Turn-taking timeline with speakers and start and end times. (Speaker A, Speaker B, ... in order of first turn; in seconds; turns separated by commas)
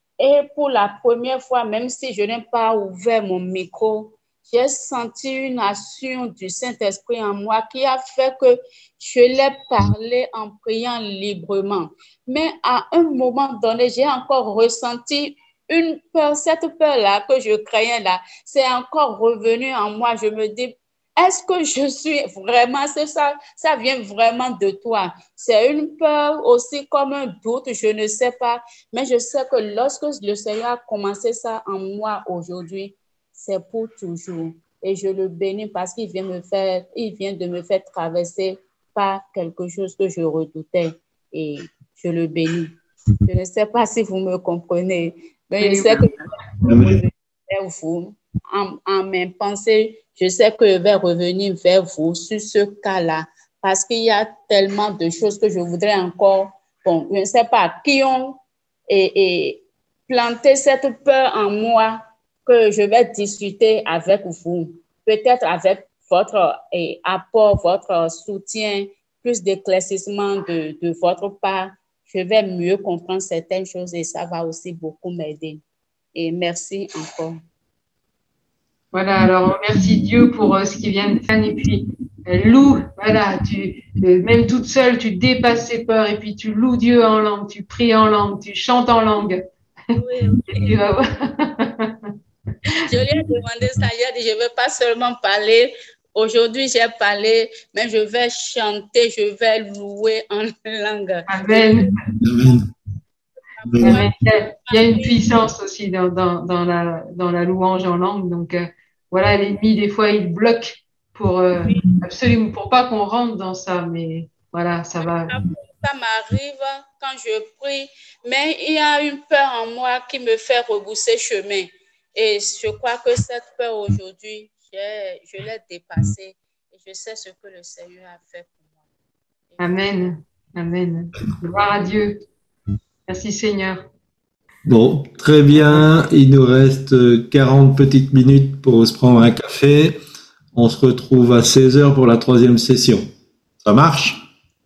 Speaker A: 0.2-42.7, Speaker A: 43.3-46.1, Speaker B: 45.6-46.0, Speaker C: 46.7-47.0, Speaker A: 47.5-75.6, Speaker A: 76.2-77.4, Speaker B: 78.9-89.4, Speaker A: 89.9-90.8, Speaker B: 90.5-92.1, Speaker A: 92.8-101.8, Speaker B: 101.3-101.9, Speaker C: 102.2-102.7, Speaker A: 103.6-105.5, Speaker C: 103.7-104.0, Speaker B: 103.8-115.3, Speaker A: 115.0-128.8, Speaker A: 129.5-129.9, Speaker B: 129.6-132.2, Speaker B: 133.1-133.8, Speaker C: 134.7-140.0, Speaker C: 140.6-143.1, Speaker C: 143.6-144.2